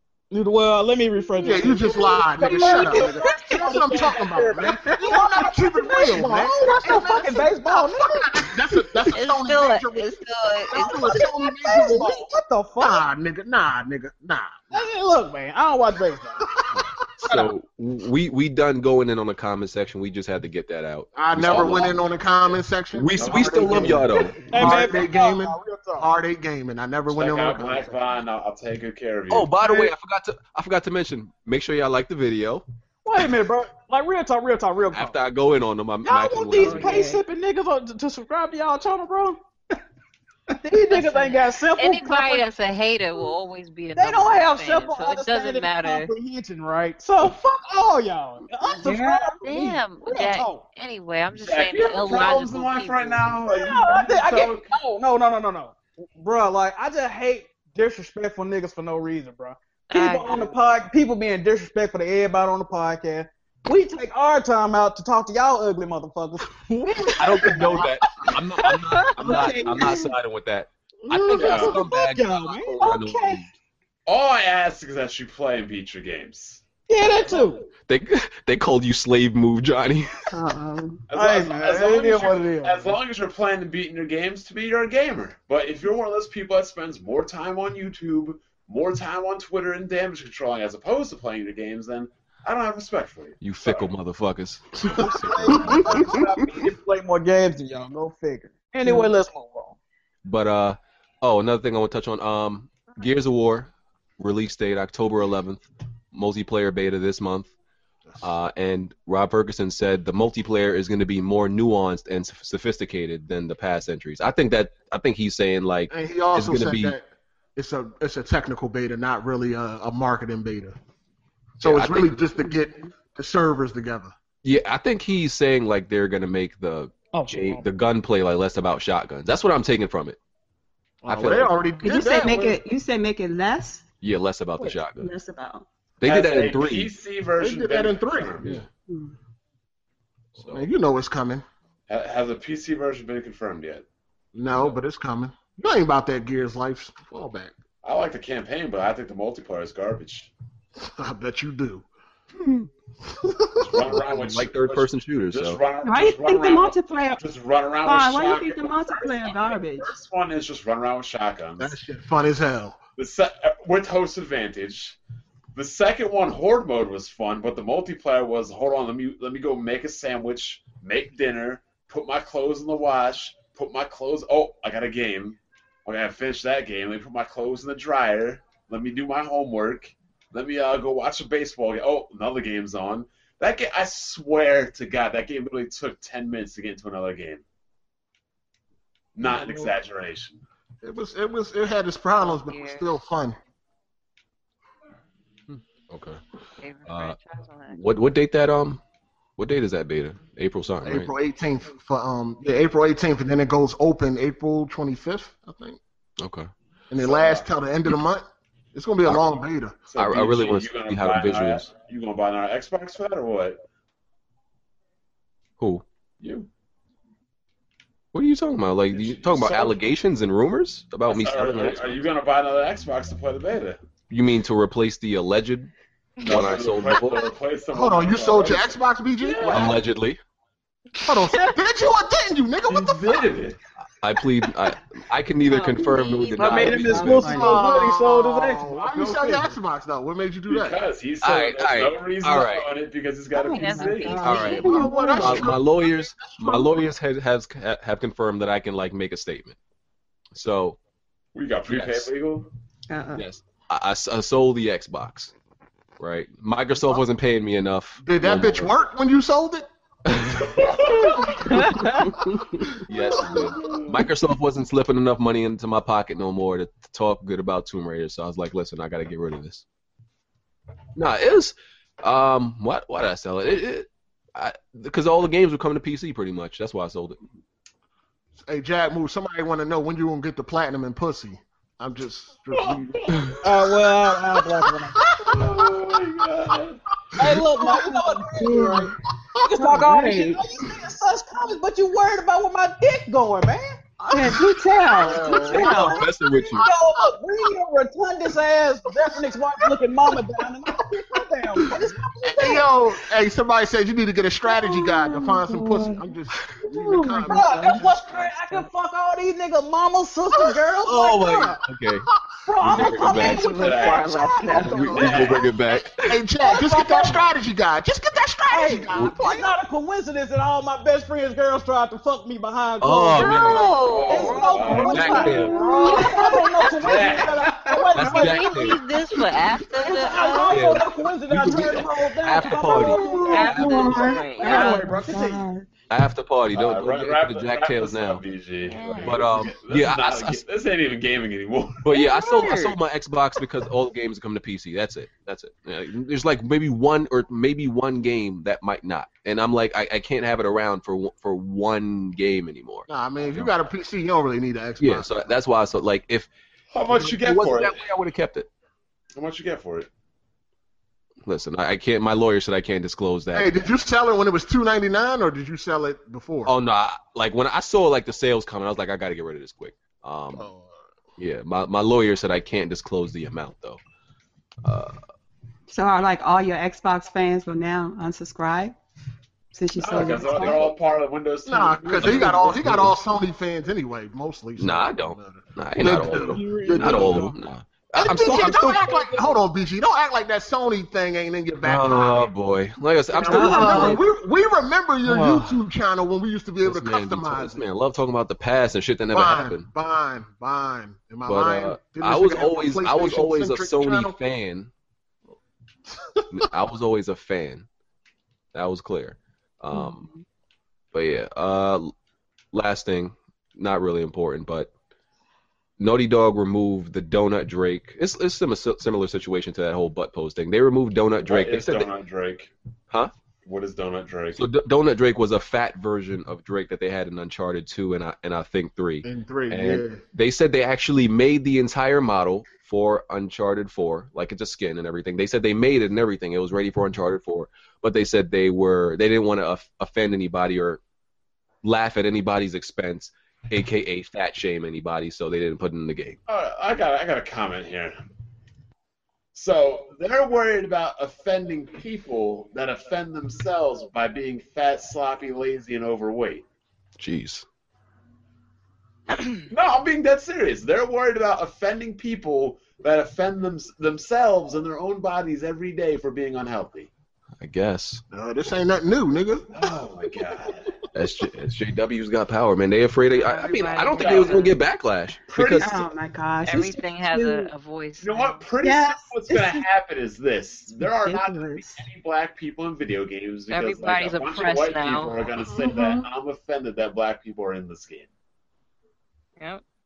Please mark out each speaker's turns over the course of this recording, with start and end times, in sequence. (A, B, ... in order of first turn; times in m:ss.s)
0:00.3-0:08.5 A
0:01.4-0:12.3 B
0:02.4-0:03.3 C
0:09.1-0:11.9 D
0:11.5-0:13.0 A
0:12.8-0:14.8 B
0:14.7-0:16.6 A
0:17.2-0:21.9 E
0:21.1-0:28.0 B
0:21.4-0:22.0 F
0:22.9-0:24.9 E
0:23.2-0:24.1 F
0:24.5-0:26.1 A
0:27.1-0:29.5 F
0:29.3-0:32.6 E
0:29.6-0:29.9 A
0:33.0-0:35.2 A
0:34.9-0:37.0 E
0:36.0-0:39.4 A
0:36.6-0:37.2 D
0:36.7-0:37.1 C
0:40.6-0:42.4 A
0:40.9-0:46.1 D
0:44.0-0:50.7 A
0:48.8-0:49.4 C
0:49.4-0:53.3 D
0:51.3-0:54.7 F
0:53.4-1:10.0 A
0:59.9-1:00.5 D
1:07.0-1:07.8 C
1:07.1-1:13.5 E
1:09.2-1:10.1 C
1:11.1-1:11.7 B
1:11.4-1:13.4 A
1:11.4-1:11.8 F
1:14.0-1:16.6 F
1:16.9-1:17.6 A
1:17.8-1:20.3 E
1:20.3-1:21.0 C
1:21.1-1:33.9 F
1:21.1-1:23.0 A
1:33.4-1:36.1 E
1:34.9-1:39.8 A
1:35.7-1:36.2 C
1:38.8-1:39.1 C
1:40.2-1:47.5 E
1:48.2-1:56.9 E
1:55.9-2:00.8 B
2:01.6-2:02.2 E
2:01.6-2:04.1 B
2:04.4-2:10.2 E
2:07.1-2:07.6 A
2:11.0-2:12.6 B
2:11.1-2:11.6 E
2:11.8-2:13.8 C
2:14.0-2:15.1 E
2:14.6-2:15.6 C
2:16.0-2:16.9 E
2:16.0-2:18.6 F
2:17.4-2:18.6 B
2:18.9-2:19.1 C
2:20.4-2:20.6 E
2:20.4-2:21.4 B
2:21.9-2:23.8 F
2:24.3-2:27.5 B
2:24.5-2:24.8 F
2:27.8-2:30.3 F
2:30.8-2:31.8 B
2:33.2-2:34.0 B
2:33.6-2:41.8 F
2:33.8-2:35.6 E
2:35.8-2:37.2 C
2:37.8-2:39.9 C
2:41.6-2:42.8 B
2:43.0-2:45.0 F
2:45.5-3:07.4 F
3:09.2-3:10.4 F
3:09.2-3:09.7 B
3:10.8-3:13.4 B
3:12.2-3:12.9 D
3:15.5-3:16.2 E
3:16.6-3:17.8 D
3:16.8-3:17.2 E
3:17.7-3:18.8 E
3:19.4-3:21.1 E
3:20.8-3:25.8 B
3:26.2-3:26.5 E
3:26.9-3:29.8 B
3:27.0-3:27.5 F
3:29.9-3:33.6 F
3:29.9-3:31.7 E
3:35.6-3:35.8 E
3:36.2-3:36.5 F
3:38.1-3:42.0 E
3:38.9-3:39.8 F
3:41.0-3:43.8 F
3:44.1-3:45.7 E
3:46.2-3:49.8 F
3:46.2-3:47.2 E
3:47.7-3:49.8 B
3:49.5-3:50.2 E
3:51.0-3:53.3 B
3:52.7-3:53.6 F
3:54.0-3:57.3 E
3:55.4-3:57.2 D
3:56.4-3:58.8 A
3:56.8-3:57.7 C
3:57.1-4:00.8 B
3:58.9-3:59.5 F
4:00.5-4:04.4 F
4:01.2-4:02.7 E
4:03.3-4:05.6 C
4:03.4-4:04.8 D
4:04.2-4:09.6 E
4:04.6-4:06.8 B
4:10.3-4:10.8 E
4:11.3-4:12.5 F
4:11.7-4:12.1 E
4:12.9-4:13.2 C
4:13.2-4:15.3 E
4:16.0-4:18.7 E
4:18.0-4:20.6 B
4:20.1-4:20.4 E
4:20.4-4:21.7 F
4:21.5-4:23.4 B
4:22.0-4:22.6 C
4:22.8-4:29.6 E
4:23.5-4:23.8 F
4:31.0-4:37.2 E
4:38.4-4:43.3 B
4:42.5-4:43.4 F
4:43.4-4:45.1 A
4:45.1-4:45.7 B
4:45.2-4:46.8 F
4:47.2-4:54.4 A
4:47.5-4:49.0 C
4:49.5-4:50.4 C
4:54.1-4:56.0 C
4:55.0-4:55.3 F
4:55.0-5:02.6 A
4:55.3-4:56.7 E
5:01.6-5:08.2 B
5:04.5-5:06.0 C
5:06.7-5:08.7 C
5:07.2-5:11.6 A
5:10.8-5:12.0 E
5:12.4-5:15.5 A
5:12.6-5:13.5 E
5:12.7-5:14.7 C
5:13.2-5:14.6 D
5:13.4-5:14.1 F
5:14.6-5:16.2 E
5:14.8-5:15.3 B
5:14.9-5:15.5 F
5:16.0-5:19.5 B
5:16.4-5:17.3 A
5:18.5-5:28.7 A
5:22.8-5:25.6 E
5:23.1-5:24.8 D
5:23.7-5:26.0 F
5:24.3-5:27.0 C
5:26.7-5:28.0 F
5:27.9-5:28.8 E
5:27.9-5:30.8 D
5:29.7-5:35.4 A
5:30.4-5:34.0 E
5:31.4-5:32.0 F
5:32.6-5:35.7 C
5:33.2-5:35.1 D
5:35.9-5:38.2 E
5:36.5-5:41.8 F
5:38.6-5:39.3 D
5:39.0-5:40.4 E
5:41.8-5:53.5 E
5:41.9-5:42.8 C
5:52.9-5:55.4 B
5:54.8-5:56.3 E
5:56.7-5:57.8 F
5:56.9-5:58.5 E
5:59.1-5:59.9 F
6:01.2-6:03.6 E
6:03.3-6:06.5 B
6:06.4-6:10.5 E
6:10.3-6:10.7 B
6:11.2-6:13.8 E
6:14.6-6:15.0 E
6:15.7-6:18.7 C
6:19.5-6:20.7 C
6:19.8-6:22.5 F
6:20.0-6:20.6 E
6:21.4-6:27.3 B
6:22.0-6:22.9 E
6:24.6-6:28.9 E
6:25.8-6:27.3 A
6:27.9-6:32.3 B
6:28.2-6:29.3 A
6:31.6-6:34.0 E
6:33.1-6:37.6 B
6:33.2-6:34.0 C
6:35.0-6:35.6 E
6:36.6-6:39.7 E
6:39.1-6:44.2 B
6:41.2-6:44.7 E
6:46.3-6:47.7 E
6:48.5-6:50.1 E
6:49.7-6:50.2 C
6:50.9-6:51.9 E
6:52.5-6:54.7 E
6:55.8-7:01.9 E
7:01.3-7:02.5 F
7:03.4-7:04.4 F
7:04.3-7:20.8 E
7:09.0-7:10.0 B
7:21.6-7:26.2 E
7:26.3-7:28.0 F
7:29.3-7:36.4 F
7:37.0-7:37.4 E
7:39.5-7:46.9 F
7:47.4-7:48.0 E
7:48.1-7:49.8 B
7:49.5-7:50.7 F
7:50.9-7:55.8 E
7:53.1-7:54.6 D
7:54.0-7:54.5 F
7:55.3-7:55.9 F
7:55.6-7:57.5 C
7:56.4-7:58.4 D
7:58.0-8:08.1 F
7:58.6-7:59.6 C
8:00.9-8:01.8 C
8:03.5-8:05.3 D
8:05.5-8:06.1 C